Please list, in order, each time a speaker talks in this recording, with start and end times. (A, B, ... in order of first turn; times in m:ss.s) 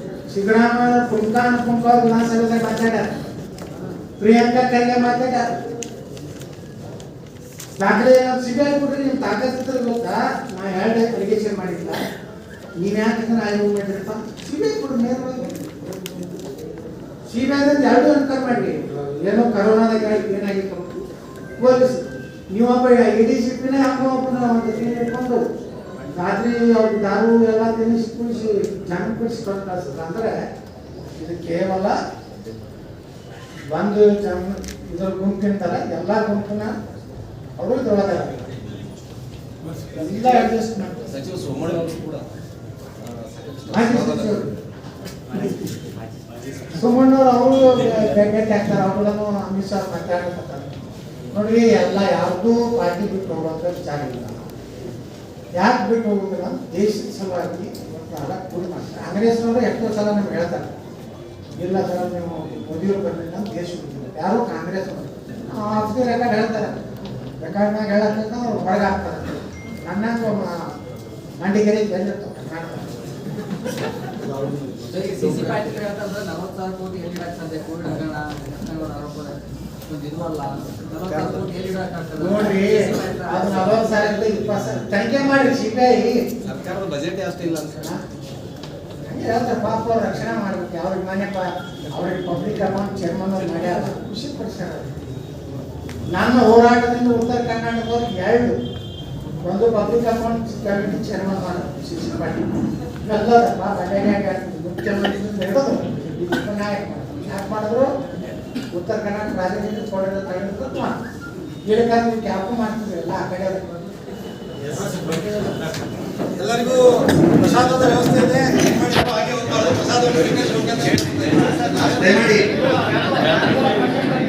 0:00.3-0:03.1 A
0:04.2-0:05.5 A
0:07.8-0:12.0 A
0:12.8-0:15.7 A
0:17.3-0:21.0 A
0:21.6-0:25.4 A
0:26.1-0:30.3 A
0:31.2-0:32.0 A
0:33.7-0:36.8 A
0:37.6-0:38.5 A
0:39.9-0:41.0 A
0:41.0-0:42.2 B
0:43.0-0:44.6 B
0:43.7-0:44.5 A
0:45.3-0:46.8 C
0:46.7-0:50.8 A
0:51.3-0:54.5 A
0:55.6-1:00.8 A
1:01.6-1:06.8 A
1:07.4-1:10.7 A
1:11.4-1:13.0 A
1:14.2-1:15.6 B
1:14.9-1:24.3 C
1:21.1-1:21.4 B
1:22.2-1:26.2 A
1:26.4-1:27.9 B
1:29.0-1:35.0 A
1:36.1-1:38.6 A
1:39.4-1:42.5 A
1:43.0-1:47.9 A
1:48.7-1:51.0 A
1:51.7-1:53.7 A
1:54.7-1:55.6 B
1:57.4-2:00.6 D
1:57.4-1:59.1 A
1:59.9-2:02.1 B
2:01.5-2:02.5 D
2:02.0-2:02.5 A